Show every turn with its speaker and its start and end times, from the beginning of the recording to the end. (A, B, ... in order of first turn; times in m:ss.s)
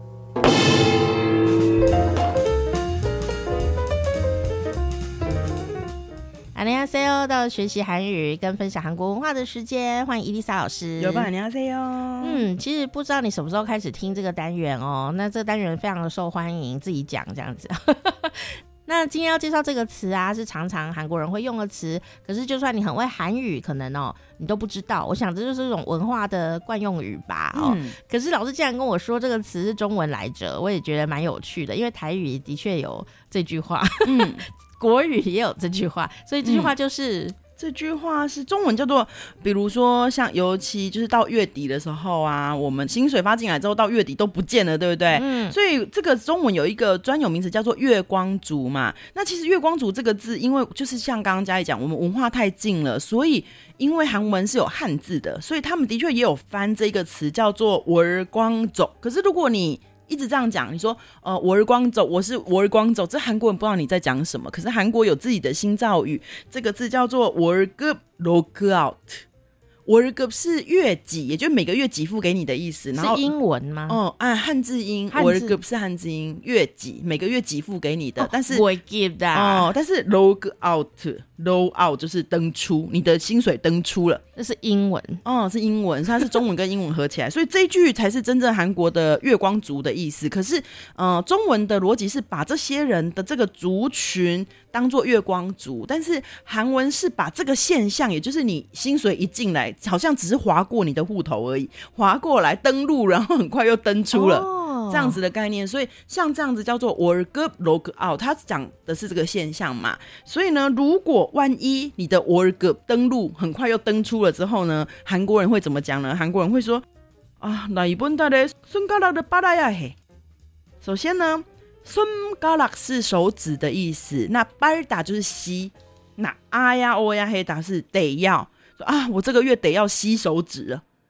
0:06.5-0:11.3 A
0:11.0-0:12.5 B
0:12.2-0:37.3 A
0:27.5-0:28.0 B
0:34.1-0:34.4 B
0:36.4-0:36.8 B
0:37.6-1:09.2 B
0:45.1-0:45.6 A
1:09.9-1:13.3 B
1:13.0-1:14.0 A
1:13.9-1:18.7 B
1:15.1-1:15.6 A
1:18.2-1:19.7 A
1:19.3-1:24.2 B
1:24.4-1:25.2 A
1:25.2-1:56.8 B
1:44.1-1:45.2 A
1:57.4-2:00.0 B
2:00.8-2:10.8 B